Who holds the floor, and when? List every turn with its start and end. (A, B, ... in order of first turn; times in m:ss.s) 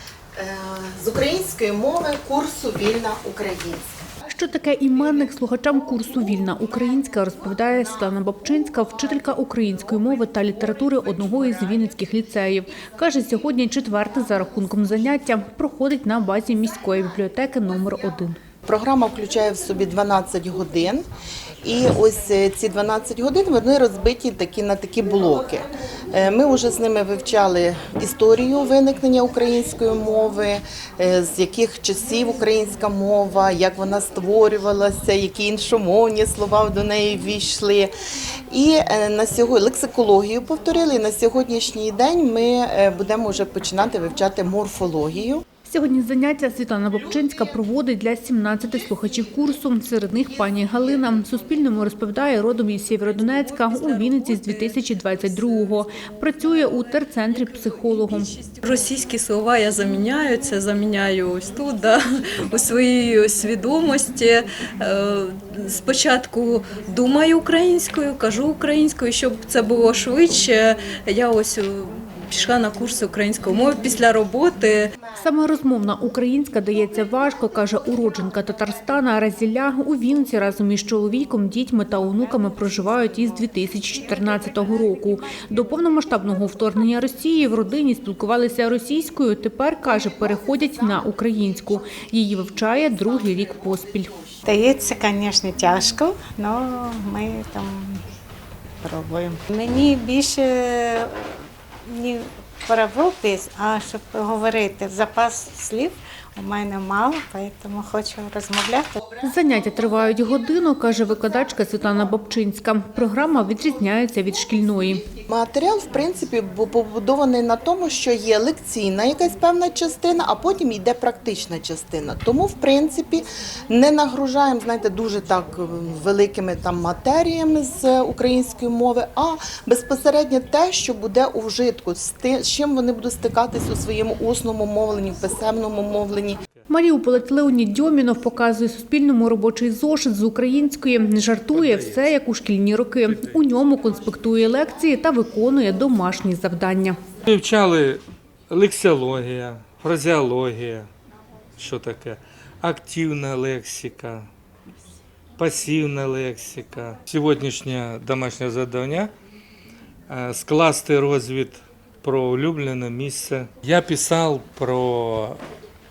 0:00.4-0:03.9 A
0:04.2-0:18.4 B
0:18.6-0:21.0 A
0:21.6-0:37.9 A
0:38.5-0:45.4 A
0:45.6-0:58.4 B
0:53.7-0:54.8 C
0:58.1-1:14.9 C
1:15.2-1:34.2 B
1:34.4-1:38.0 D
1:38.8-1:49.1 D
1:49.2-1:55.1 B
1:55.3-2:16.4 A
2:16.7-2:27.0 B
2:21.5-2:22.1 E
2:23.1-2:23.4 E
2:27.3-2:30.9 E
2:31.6-2:34.3 E
2:35.4-2:39.1 E
2:40.1-2:45.4 E